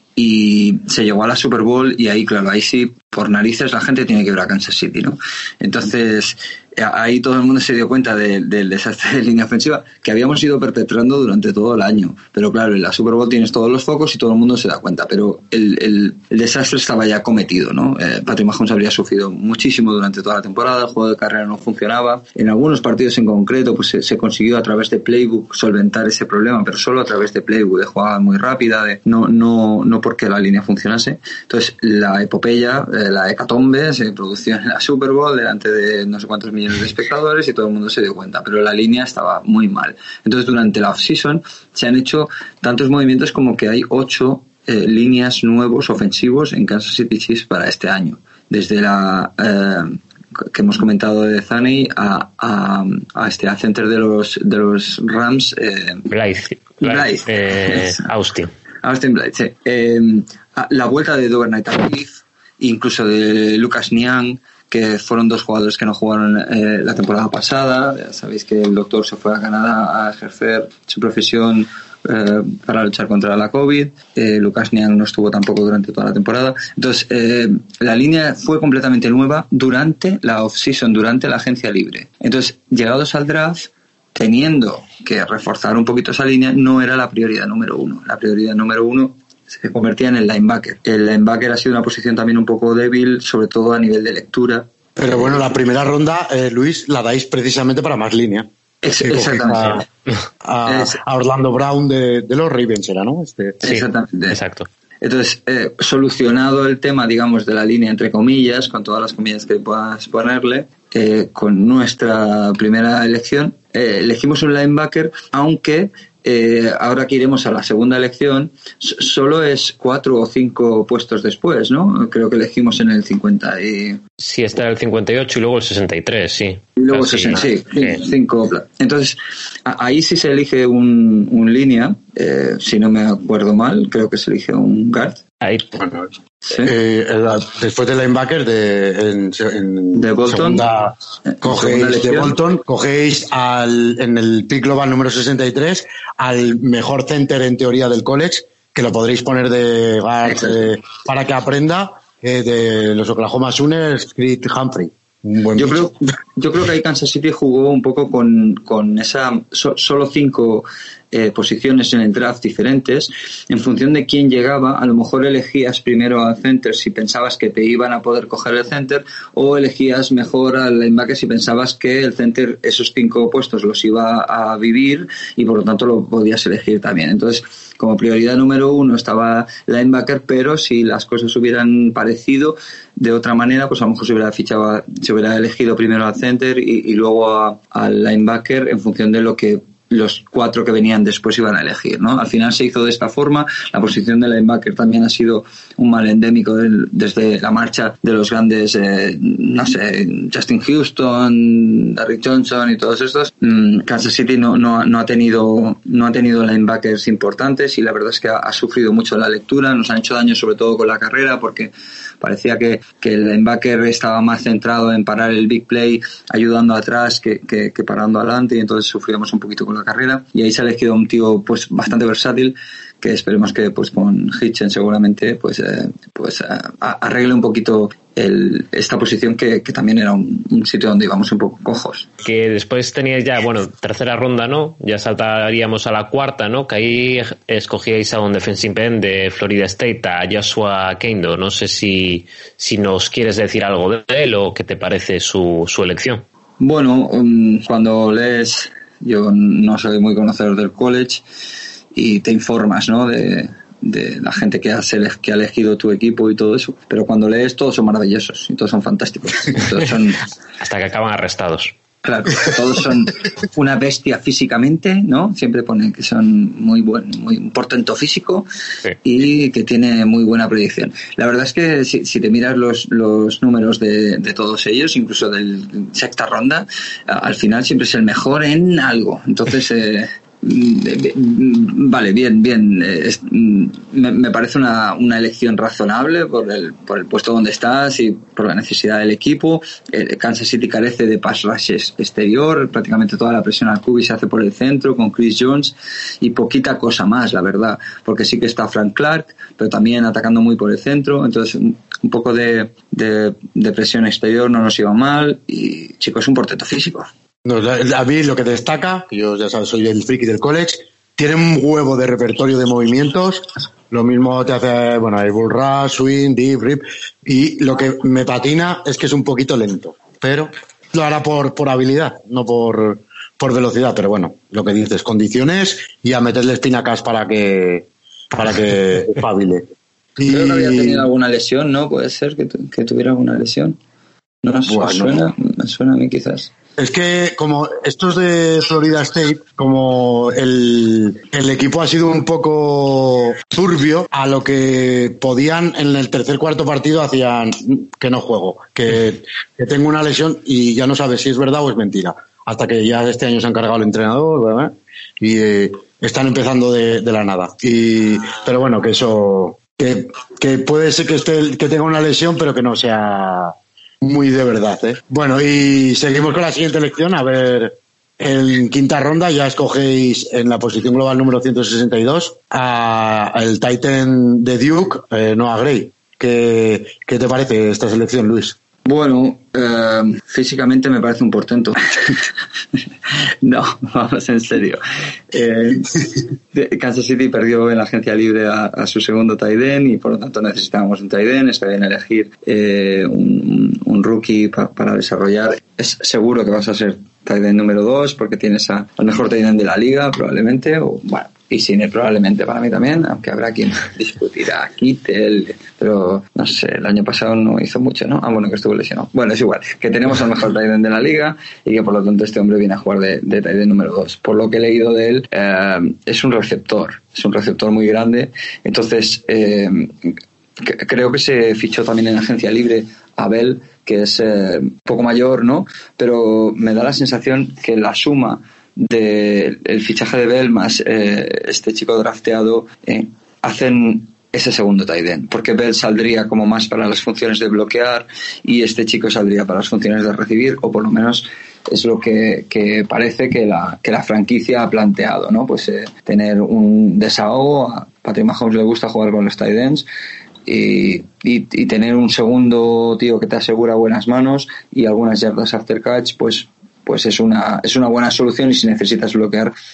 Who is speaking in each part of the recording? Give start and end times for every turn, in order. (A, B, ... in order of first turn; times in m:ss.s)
0:00.2-0:56.1 A
0:56.1-0:58.5 B
0:56.8-0:58.0 A
0:58.8-1:35.5 A
1:35.0-1:38.5 C
1:38.8-1:39.8 A
1:39.0-1:39.8 C
1:40.4-1:43.6 C
1:40.6-1:41.0 A
1:43.6-1:44.4 A
1:43.6-1:44.7 B
1:45.0-2:04.0 A
2:04.2-2:08.0 B
2:06.8-2:15.2 A
2:15.4-2:15.7 B
2:15.7-2:16.1 C
2:16.4-2:16.7 A
2:16.6-2:35.9 C
2:19.9-2:20.6 A
2:21.2-2:22.3 A
2:30.2-2:30.7 A
2:35.6-3:52.0 A
3:52.2-4:06.2 B
4:06.6-4:11.2 A
4:11.9-4:20.2 A
4:20.6-4:21.7 B
4:22.0-4:28.5 A
4:29.0-5:07.1 A
5:07.4-5:29.6 C
5:30.2-5:31.1 C
5:30.3-5:33.8 A
5:34.4-5:36.5 A
5:34.6-5:35.2 C
5:36.8-6:18.6 C
6:18.8-6:22.2 A
6:23.4-6:24.8 A
6:25.3-7:29.9 A
7:30.4-7:39.5 A